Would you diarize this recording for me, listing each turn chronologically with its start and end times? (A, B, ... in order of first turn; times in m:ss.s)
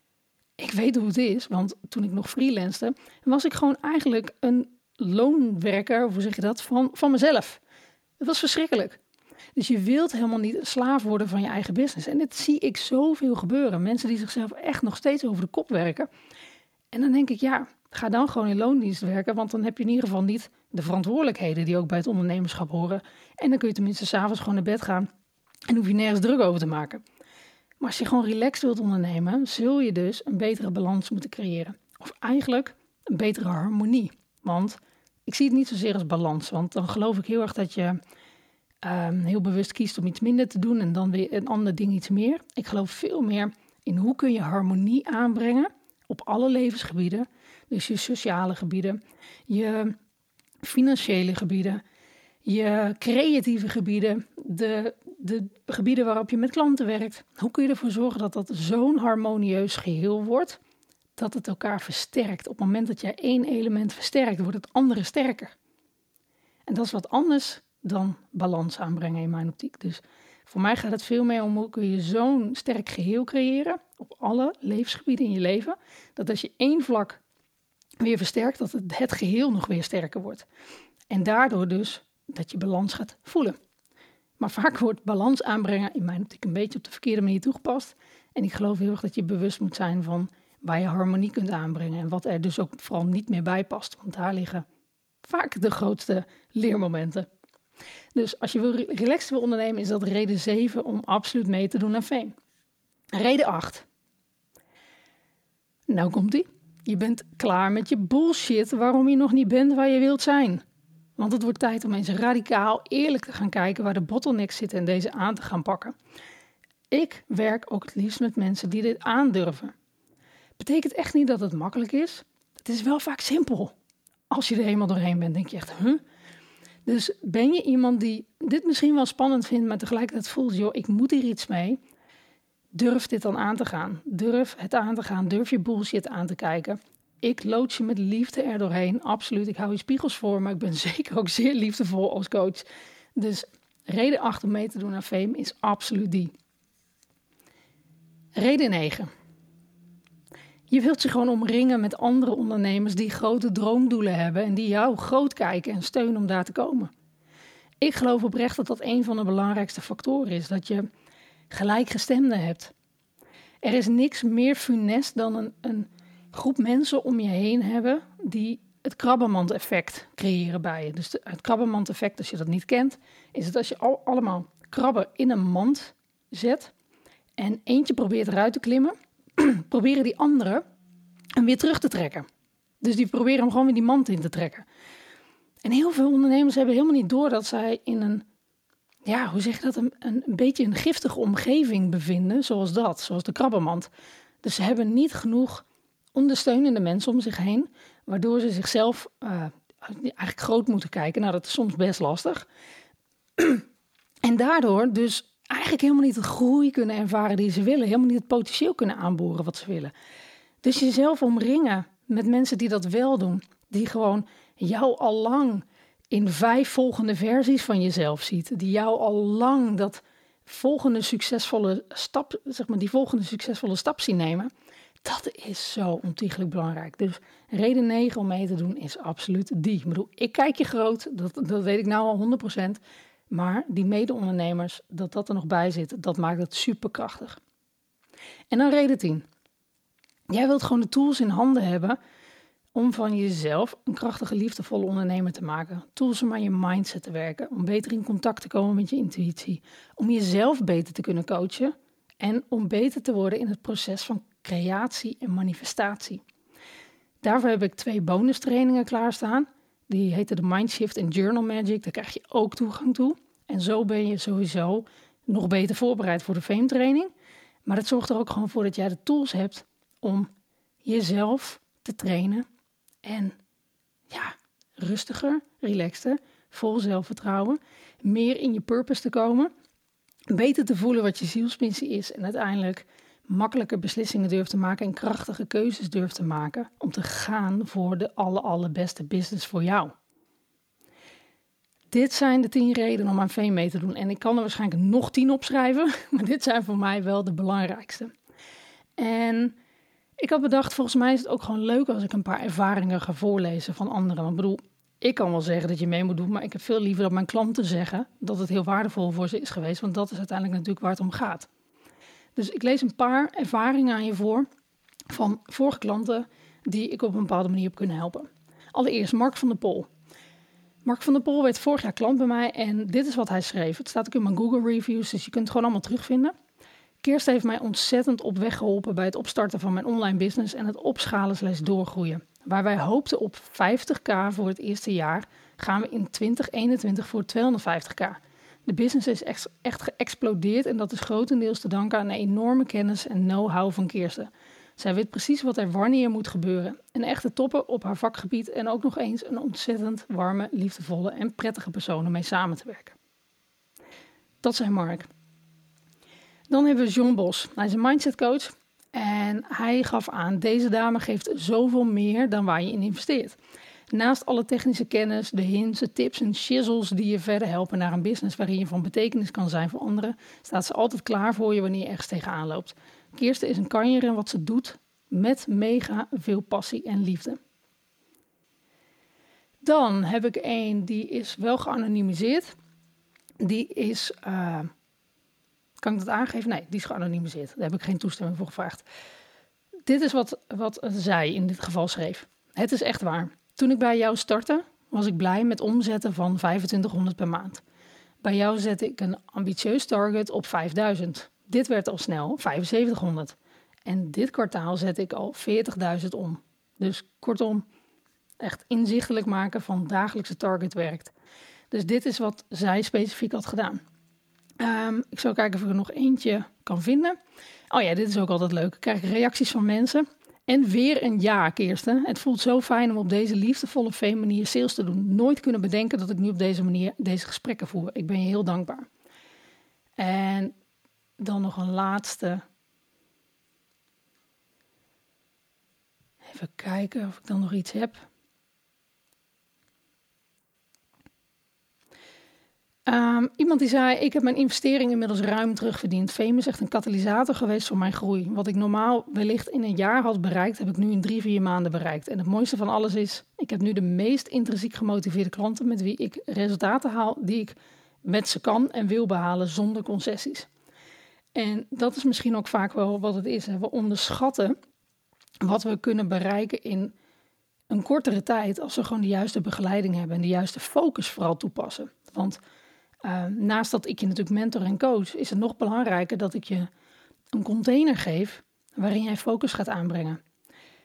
0:00.6-0:07.6 A
0:08.2-0:09.0 A
0:09.6-0:16.1 A
0:16.9-0:25.1 A
0:25.7-0:27.0 A
0:27.8-0:38.0 A
0:38.8-0:50.0 A
0:50.6-0:51.8 A
0:52.4-1:00.6 A
1:01.2-1:05.6 A
1:06.7-1:17.2 A
1:18.0-1:20.5 A
1:21.1-1:23.6 A
1:24.4-1:34.6 A
1:35.2-1:37.3 A
1:38.2-1:42.3 A
1:43.1-1:43.9 A
1:45.9-1:50.6 A
1:51.2-1:56.0 A
1:56.9-1:59.7 A
2:00.6-2:03.7 A
2:04.3-2:06.0 A
2:06.9-2:11.8 A
2:12.7-2:26.3 A
2:28.4-2:29.1 A
2:30.7-2:36.9 A
2:37.8-2:40.9 A
2:41.5-2:42.7 A
2:43.6-2:56.7 A
2:57.4-3:00.6 A
3:01.4-3:02.3 A
3:02.8-3:04.7 A
3:05.6-3:08.2 A
3:09.1-3:13.9 A
3:14.4-3:22.5 A
3:23.4-3:23.6 A
3:24.2-3:29.9 A
3:30.6-3:44.5 A
3:45.0-3:57.4 A
3:58.5-3:59.3 A
4:00.3-4:02.0 A
4:02.7-4:16.2 A
4:17.2-4:27.1 A
4:27.7-4:30.3 A
4:30.8-4:32.5 A
4:33.0-4:33.4 A
4:34.1-4:39.5 A
4:40.3-4:49.9 A
4:51.9-4:58.1 A
4:59.0-4:59.6 A
5:00.2-5:11.5 A
5:12.4-5:14.5 A
5:15.1-5:19.9 A
5:20.8-5:26.3 A
5:27.0-5:53.0 A
5:54.4-5:55.1 A
5:56.5-6:03.4 A
6:03.9-6:17.4 A
6:19.6-6:22.5 A
6:23.4-6:24.7 A
6:25.8-6:28.8 A
6:29.9-6:37.6 A
6:38.2-6:47.6 A
6:48.4-6:51.1 A
6:51.7-6:53.8 A
6:54.6-6:57.2 A
6:57.7-7:08.9 A
7:10.0-7:10.6 A
7:11.2-7:12.4 A
7:16.2-7:18.1 A
7:22.9-7:40.5 A
7:41.3-7:44.6 A
7:45.4-7:47.0 A
7:47.7-7:52.4 A
7:53.0-7:56.7 A
7:57.3-8:00.2 A